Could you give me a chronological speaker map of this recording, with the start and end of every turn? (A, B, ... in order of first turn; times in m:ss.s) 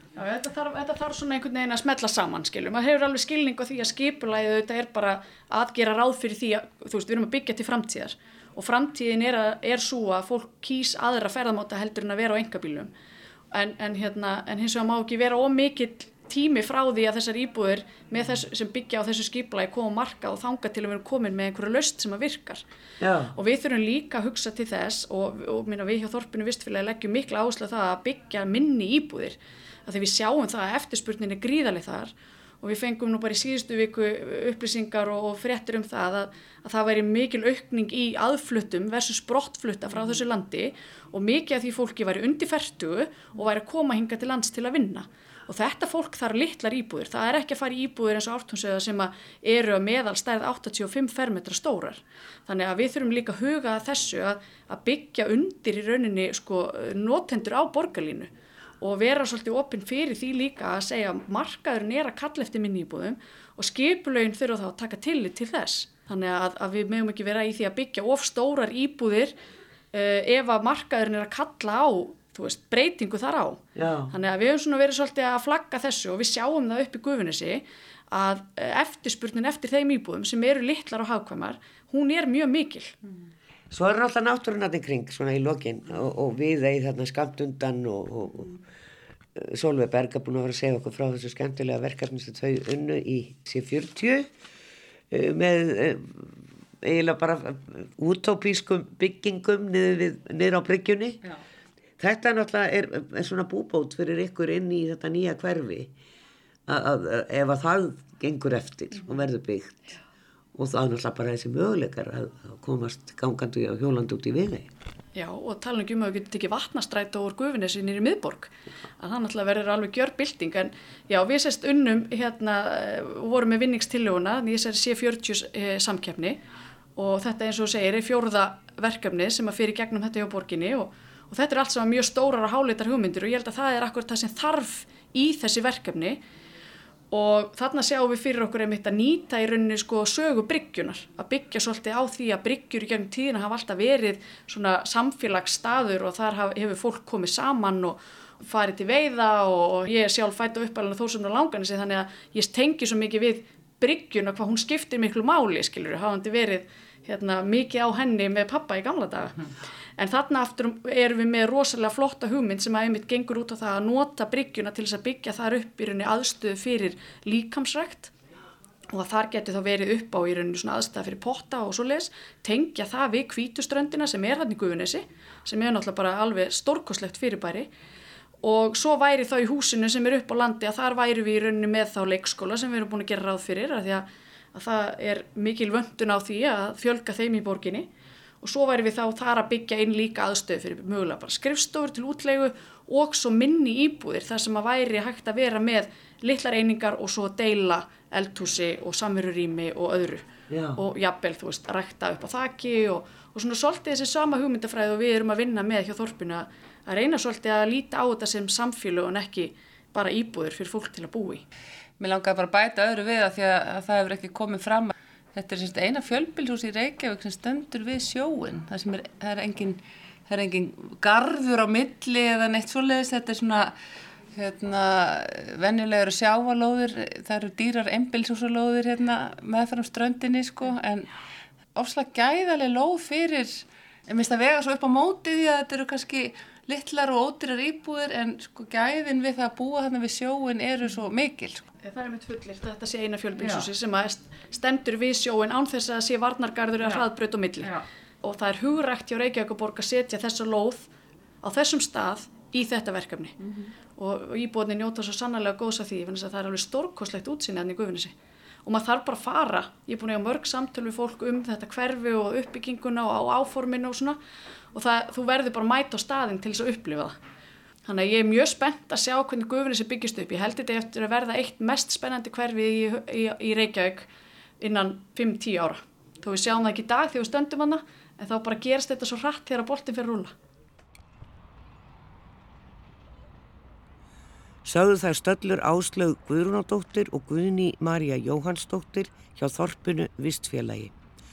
0:00.2-0:12.9 A
0:13.5-0:22.6 A
0:23.0-0:23.3 B
0:23.3-1:09.3 A
1:09.9-1:22.9 A
1:13.8-1:14.1 B
1:23.7-1:28.5 B
1:29.3-1:34.3 B
1:35.1-1:41.2 B
1:42.0-1:45.9 B
1:46.7-1:49.9 B
1:50.5-1:54.7 B
1:55.1-2:06.4 A
2:07.0-2:16.2 A
2:17.1-2:39.4 A
2:40.0-2:48.1 A
2:48.9-2:57.7 A
2:58.4-3:07.9 A
3:08.4-3:20.2 A
3:20.5-3:20.8 B
3:20.8-3:31.4 A
3:32.0-3:43.7 C
3:44.3-3:51.1 C
3:51.8-4:01.6 C
4:01.8-4:10.9 A
4:03.4-4:03.7 C
4:11.4-4:13.4 A
4:13.4-4:13.7 C
4:14.0-4:18.1 A
4:18.6-4:24.2 A
4:24.7-4:27.2 A
4:27.8-4:34.1 A
4:34.6-4:40.3 A
4:44.6-4:50.9 B